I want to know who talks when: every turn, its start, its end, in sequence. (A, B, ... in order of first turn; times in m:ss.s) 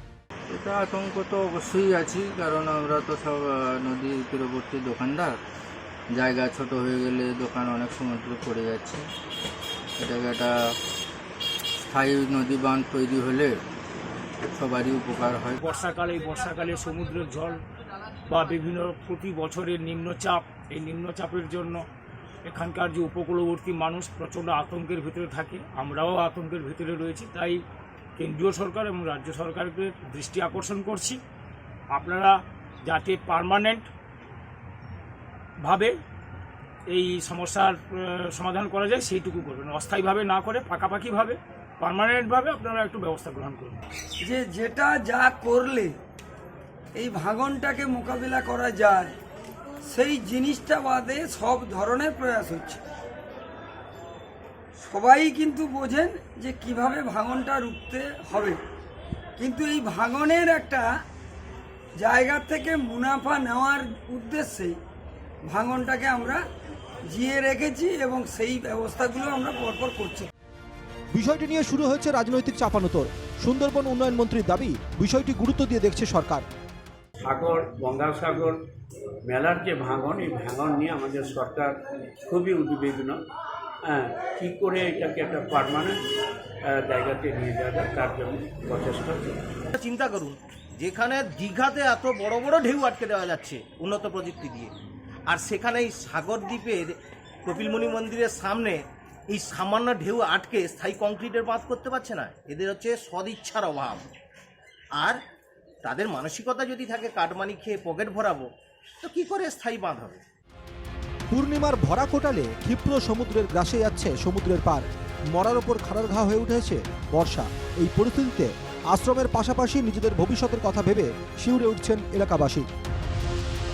0:00.5-0:05.4 A
0:06.1-0:09.0 A
0:10.0-0:10.5 A
0:11.8-0:13.6 A
0:14.5-0:15.6 A
0:15.6-0:17.6 B
0:18.3-0:21.8 B
0:22.4-0:27.6 B
0:28.2-0:31.2 B
0:31.9-0:33.9 B
0:35.6-0:35.9 B
0:36.9-0:43.8 B
0:44.2-0:45.9 C
0:46.9-0:49.2 C
0:49.8-0:52.8 C
0:54.8-0:58.6 C
0:59.4-1:00.9 C
1:02.0-1:04.8 C
1:05.4-1:06.4 C
1:07.1-1:10.3 C
1:11.1-1:16.4 D
1:17.2-1:18.6 E
1:19.2-1:23.2 E
1:23.9-1:26.0 E
1:26.6-1:29.4 E
1:29.8-1:34.7 F
1:35.3-1:44.1 F
1:45.8-1:48.5 F
1:49.0-1:50.2 F
1:51.3-2:02.6 D